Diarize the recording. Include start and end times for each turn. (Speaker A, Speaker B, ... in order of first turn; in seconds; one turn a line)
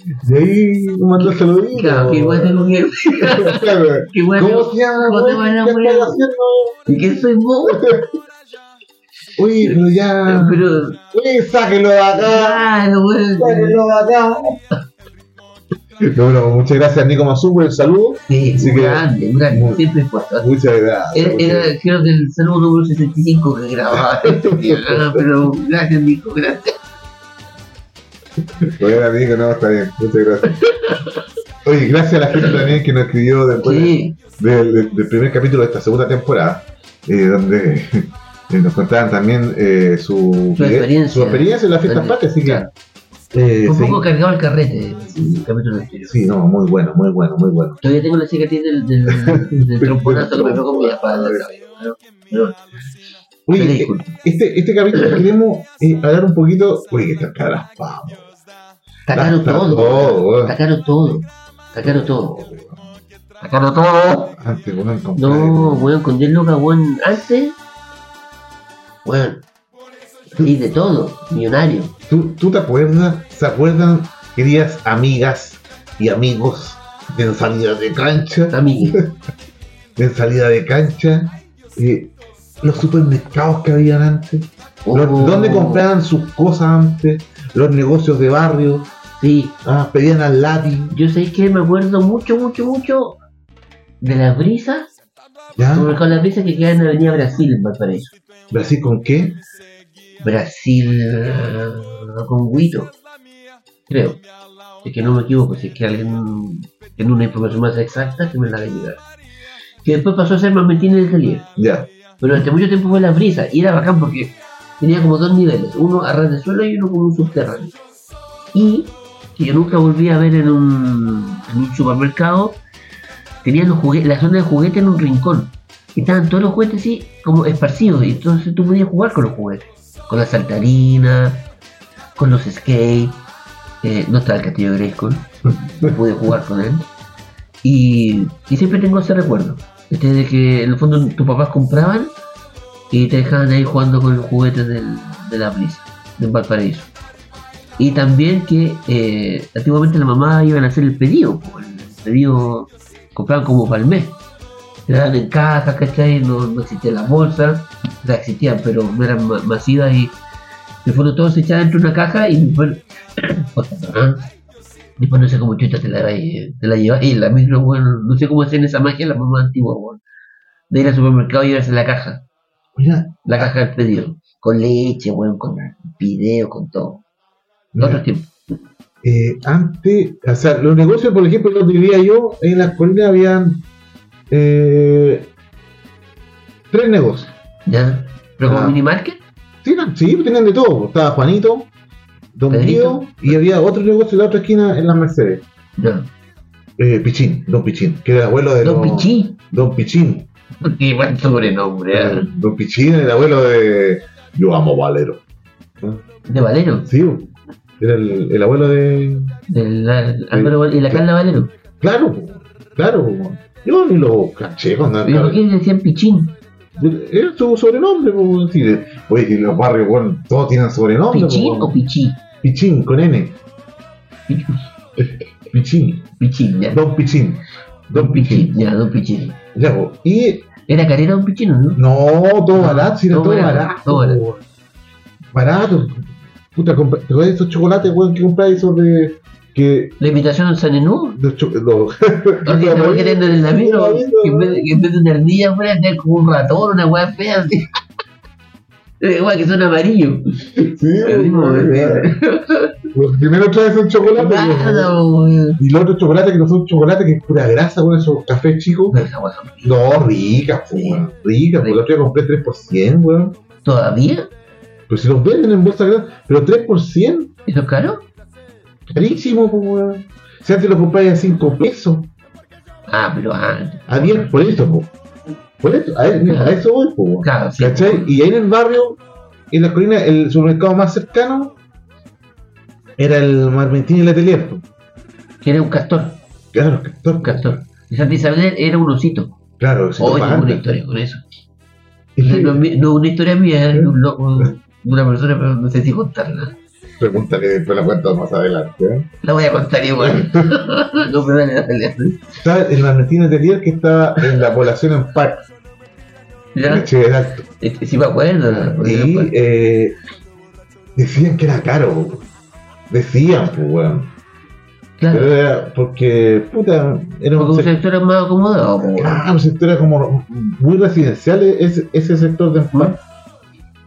Speaker A: 0.2-6.8
Speaker B: 1.2-6.3
Speaker B: 6.9-8.0
Speaker A: 7.7-8.1
Speaker A: 9.4-12.7
Speaker B: 9.6-11.0
Speaker B: 12.2-13.8
Speaker A: 13.4-14.6
Speaker A: 16.0-19.8
Speaker B: 18.3-20.5
Speaker A: 20.4-21.7
Speaker B: 21.1-26.8
Speaker A: 24.0-25.3
Speaker A: 28.6-30.6
Speaker B: 30.5-31.1
Speaker A: 31.6-42.7
Speaker B: 33.6-34.2
Speaker B: 40.6-42.7
Speaker A: 43.3-44.0
Speaker B: 43.7-46.1
Speaker A: 45.1-45.5
Speaker A: 46.1-47.8
Speaker B: 47.8-52.6
Speaker A: 49.1-51.4
Speaker A: 53.5-58.2
Speaker B: 53.6-54.1
Speaker B: 59.1-62.4
Speaker A: 59.1-60.6
Speaker A: 61.8-62.9
Speaker B: 63.4-64.4
Speaker A: 64.4-65.9
Speaker B: 65.2-67.6
Speaker B: 69.0-69.5
Speaker B: 70.3-71.9
Speaker A: 72.1-79.2
Speaker B: 78.5-79.0
Speaker A: 80.0-88.9
Speaker B: 84.8-85.8
Speaker B: 89.2-89.6
Speaker A: 89.6-90.9
Speaker B: 90.9-93.2
Speaker B: 94.0-94.9
Speaker A: 95.6-96.1
Speaker B: 95.7-98.2
Speaker A: 98.5-99.4
Speaker B: 100.2-102.9
Speaker B: 103.9-104.2
Speaker B: 104.8-109.0
Speaker B: 109.8-111.5
Speaker A: 111.6-112.4
Speaker B: 112.2-117.8
Speaker B: 118.5-122.6
Speaker B: 123.4-131.4
Speaker B: 132.2-133.2
Speaker B: 133.8-136.9
Speaker B: 137.6-142.1
Speaker B: 142.9-146.9
Speaker B: 147.8-154.2
Speaker B: 154.9-160.2
Speaker B: 160.8-164.3
Speaker B: 165.0-170.0
Speaker B: 170.7-172.2
Speaker A: 172.8-173.5
Speaker B: 173.3-177.0
Speaker A: 177.7-178.0
Speaker B: 177.8-178.3
Speaker A: 179.0-183.6
Speaker A: 184.3-185.3
Speaker A: 186.7-187.3
Speaker B: 187.7-189.2
Speaker A: 188.4-188.8
Speaker A: 189.6-191.7
Speaker A: 192.3-195.4
Speaker B: 192.5-193.3
Speaker B: 195.8-196.1
Speaker A: 196.8-200.3
Speaker B: 198.6-199.4
Speaker B: 200.6-202.3
Speaker A: 201.9-205.2
Speaker B: 206.3-206.9
Speaker A: 206.8-209.4
Speaker B: 209.5-211.5
Speaker A: 210.3-211.0
Speaker A: 211.8-215.4
Speaker B: 215.1-216.4
Speaker A: 216.8-221.8
Speaker B: 221.1-222.2
Speaker A: 222.4-223.4
Speaker B: 224.3-224.6
Speaker A: 225.0-226.1
Speaker B: 226.2-226.8
Speaker A: 226.7-228.5
Speaker B: 227.9-229.4
Speaker A: 229.6-230.5
Speaker B: 230.7-231.8
Speaker A: 231.8-234.4
Speaker B: 232.6-234.2
Speaker A: 235.3-240.0
Speaker B: 240.0-241.2
Speaker A: 241.2-244.6
Speaker B: 242.5-247.7
Speaker B: 249.0-250.2
Speaker A: 250.6-252.1
Speaker B: 251.0-252.7
Speaker A: 252.9-254.9
Speaker B: 254.0-255.6
Speaker A: 255.6-259.0
Speaker B: 258.9-259.9
Speaker A: 259.6-263.4
Speaker B: 260.7-261.0
Speaker B: 263.6-264.3
Speaker A: 264.9-267.3
Speaker B: 267.5-268.1
Speaker A: 268.9-272.1
Speaker B: 272.9-274.4
Speaker A: 273.9-274.9
Speaker A: 275.6-279.0
Speaker B: 276.3-276.6
Speaker B: 277.2-278.1
Speaker A: 279.5-281.6
Speaker A: 283.0-284.6
Speaker B: 285.4-286.2
Speaker A: 286.5-287.6
Speaker B: 287.2-289.4
Speaker A: 289.6-290.6
Speaker B: 290.0-291.2
Speaker A: 292.2-292.6
Speaker B: 292.2-296.6
Speaker A: 293.7-294.5
Speaker A: 297.0-299.1
Speaker B: 299.2-302.3
Speaker A: 300.0-300.6
Speaker A: 302.4-305.4
Speaker B: 306.6-306.9
Speaker A: 306.7-307.5
Speaker B: 307.6-309.3
Speaker A: 308.5-310.0
Speaker A: 311.0-312.2
Speaker A: 312.9-314.1
Speaker B: 315.0-315.3
Speaker A: 315.1-317.7
Speaker B: 317.4-319.3
Speaker A: 319.0-323.0